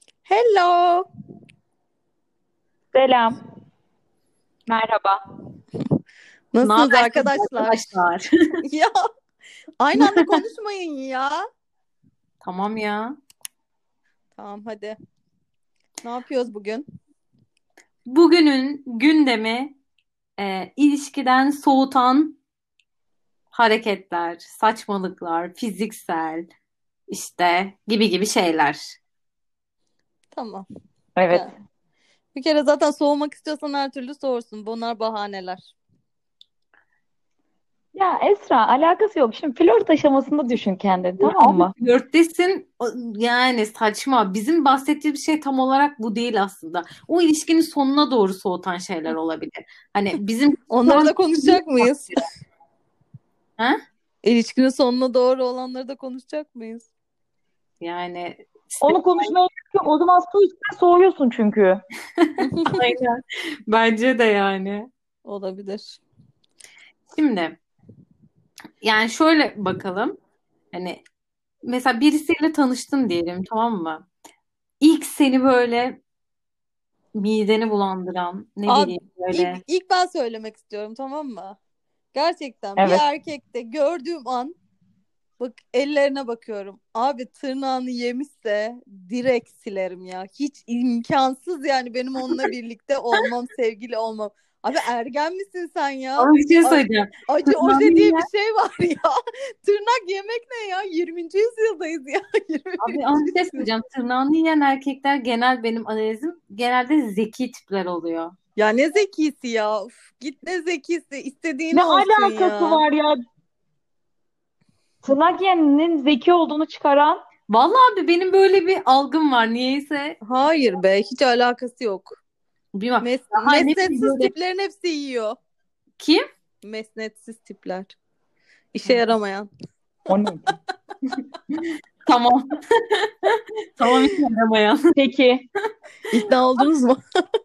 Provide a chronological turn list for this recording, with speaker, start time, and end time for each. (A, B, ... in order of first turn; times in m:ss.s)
0:00.3-0:01.0 A
0:02.9-0:03.4 B
0:04.7-0:05.2 B
0:06.5-0:07.8 A
0:06.6-0:08.3 C
0:08.6-0:08.9 A
0:09.8-0:11.4 A
0:10.0-0:10.3 C
0:12.4-0:13.2 C
0:14.4-0:15.0 A
0:16.0-0:16.8 A
0:18.1-0:19.8 C
0:20.4-0:22.4 C
0:23.5-0:26.5 C
0:27.1-0:29.0 C
0:30.3-0:30.7 A
0:31.2-0:31.5 B
0:32.3-0:35.7 A
0:38.0-0:41.7 B
0:41.2-0:52.2 C
0:50.7-0:52.2 A
0:54.2-0:56.9 A
0:57.8-0:59.3 C
0:58.8-1:01.8 B
1:02.2-1:04.9 C
1:02.4-1:02.8 A
1:05.2-1:06.0 A
1:07.1-1:07.6 C
1:08.8-1:10.2 C
1:10.7-1:11.0 C
1:11.6-1:14.1 C
1:14.8-1:16.0 C
1:17.2-1:19.6 C
1:18.7-1:21.6 A
1:22.1-1:24.6 A
1:22.8-1:23.0 B
1:25.4-1:39.1 A
1:36.2-1:38.3 C
1:39.6-1:43.7 A
1:42.8-1:48.3 C
1:48.6-1:52.8 A
1:51.7-1:53.2 B
1:55.0-1:57.2 B
1:57.5-2:00.2 C
2:00.2-2:02.2 A
2:02.8-2:04.3 C
2:03.0-2:05.4 A
2:06.0-2:06.2 C
2:06.6-2:08.0 A
2:08.7-2:09.5 A
2:10.1-2:10.5 B
2:11.1-2:14.9 C
2:15.0-2:15.5 B
2:16.1-2:17.0 A